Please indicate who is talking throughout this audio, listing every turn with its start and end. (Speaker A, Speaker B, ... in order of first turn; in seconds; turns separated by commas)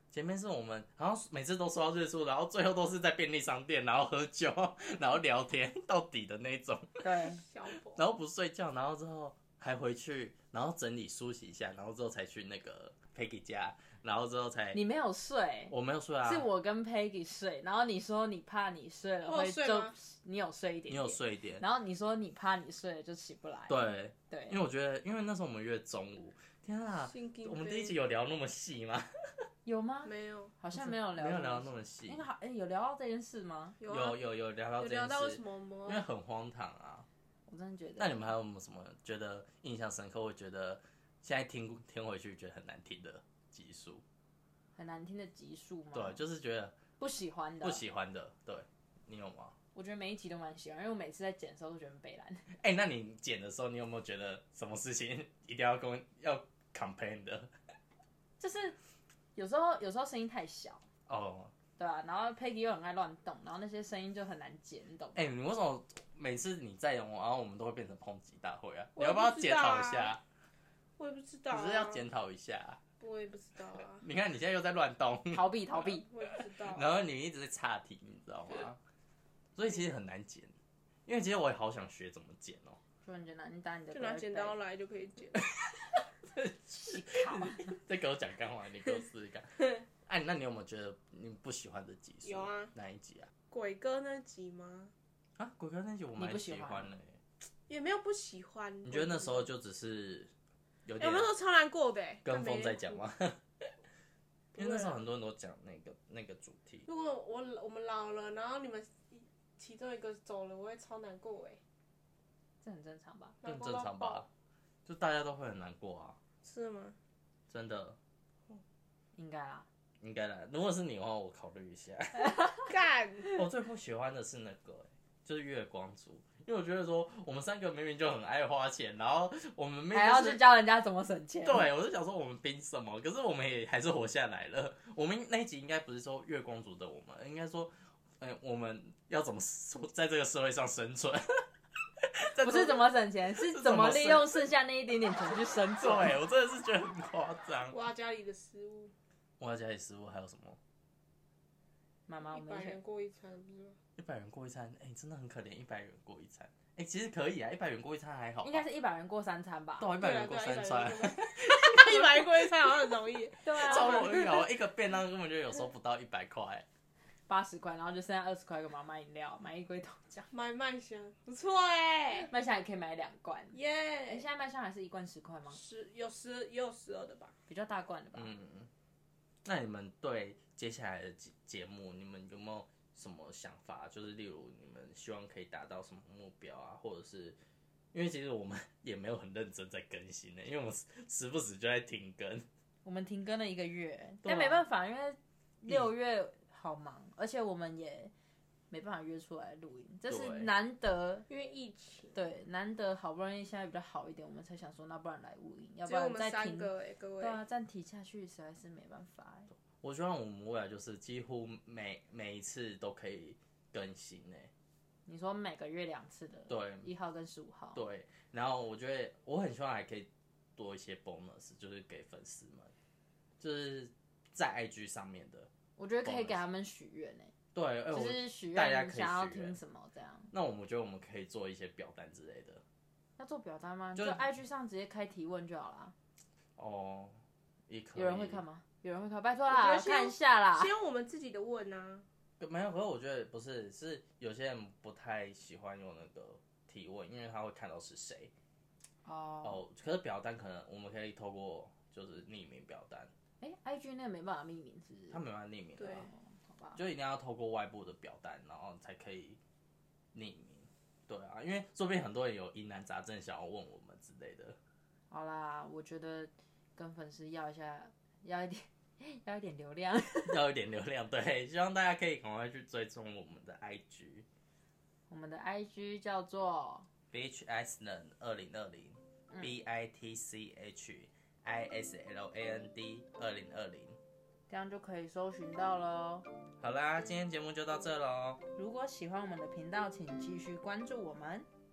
Speaker A: 0.1-7.2, Speaker B: 7.0-7.4, Speaker C: 7.3-8.0, Speaker A: 7.9-14.8, Speaker B: 14.7-24.6, Speaker A: 15.7-16.5, Speaker C: 19.2-20.0, Speaker A: 20.9-21.6, Speaker A: 23.7-29.1, Speaker C: 27.0-28.0, Speaker B: 29.6-33.8, Speaker C: 30.1-30.5, Speaker A: 30.8-32.3, Speaker C: 33.8-34.2, Speaker A: 33.9-37.1, Speaker C: 34.8-36.1, Speaker B: 37.5-38.2, Speaker A: 38.0-44.0, Speaker B: 44.8-46.2, Speaker A: 45.9-46.7, Speaker B: 47.0-47.8, Speaker A: 47.6-49.5, Speaker B: 49.7-52.5, Speaker A: 52.6-57.5, Speaker B: 58.4-58.8, Speaker B: 59.4-60.9, Speaker A: 61.1-61.5, Speaker B: 61.8-65.3, Speaker A: 65.2-70.2, Speaker C: 69.0-70.2, Speaker C: 71.0-72.0, Speaker A: 71.5-72.8, Speaker C: 73.0-74.0, Speaker A: 74.0-75.5, Speaker B: 75.3-76.0, Speaker C: 75.7-77.0, Speaker A: 76.6-78.8, Speaker A: 79.6-80.5, Speaker A: 81.1-82.8, Speaker B: 83.0-84.6, Speaker C: 83.9-85.4, Speaker A: 85.4-85.6, Speaker A: 86.3-93.3, Speaker B: 86.9-87.7, Speaker C: 92.2-92.7, Speaker C: 93.5-94.9, Speaker A: 95.4-97.2, Speaker B: 96.2-96.9, Speaker C: 97.7-99.5, Speaker A: 98.8-100.3, Speaker A: 100.9-101.3, Speaker C: 101.0-103.0, Speaker A: 102.2-103.4, Speaker A: 104.5-106.9, Speaker C: 104.6-105.0, Speaker C: 106.9-111.6, Speaker B: 112.6-113.4, Speaker C: 113.4-114.3, Speaker A: 113.4-114.3, Speaker A: 114.9-116.2, Speaker C: 116.4-117.0, Speaker A: 117.5-118.0, Speaker B: 119.2-119.7, Speaker A: 120.0-122.6, Speaker C: 122.7-123.4, Speaker A: 123.3-130.5, Speaker B: 129.9-131.7, Speaker A: 131.4-141.5, Speaker A: 142.0-144.4, Speaker B: 142.4-146.2, Speaker A: 145.8-147.8, Speaker C: 147.7-148.9, Speaker A: 149.4-150.6, Speaker B: 152.1-152.8, Speaker C: 152.3-153.8, Speaker A: 154.0-158.6, Speaker B: 158.4-159.9, Speaker A: 159.8-162.7, Speaker C: 160.0-164.5, Speaker B: 163.4-164.1, Speaker A: 163.5-166.7, Speaker B: 167.3-170.3, Speaker C: 170.3-172.3, Speaker B: 172.1-173.6, Speaker C: 173.5-174.3, Speaker B: 174.1-175.6, Speaker C: 175.5-177.3, Speaker B: 177.5-178.3, Speaker A: 178.2-178.7, Speaker A: 179.4-187.4, Speaker A: 187.9-192.5, Speaker B: 192.8-198.1, Speaker A: 194.2-194.7, Speaker B: 198.7-201.3, Speaker A: 200.1-200.5, Speaker C: 201.3-202.2, Speaker B: 202.1-209.5, Speaker C: 205.8-207.4, Speaker A: 209.8-214.5, Speaker B: 215.1-217.8, Speaker A: 216.5-216.9, Speaker A: 217.7-222.7, Speaker A: 223.4-225.5, Speaker B: 225.8-227.3, Speaker A: 226.1-226.4, Speaker A: 227.5-229.6, Speaker B: 227.9-230.3, Speaker A: 230.3-232.6, Speaker B: 233.2-235.9, Speaker A: 234.0-234.3, Speaker A: 236.6-238.4, Speaker B: 237.9-240.7, Speaker C: 239.5-242.1, Speaker A: 242.4-248.3, Speaker B: 249.0-249.6, Speaker A: 249.4-253.1, Speaker B: 253.4-255.2, Speaker A: 255.1-256.1, Speaker C: 255.8-256.1, Speaker B: 256.1-256.8, Speaker A: 256.8-259.4, Speaker A: 260.1-264.6, Speaker B: 265.1-270.4, Speaker A: 270.3-274.3, Speaker B: 275.1-276.9, Speaker A: 277.1-284.0, Speaker B: 284.5-286.3, Speaker A: 286.6-288.4, Speaker B: 288.6-291.5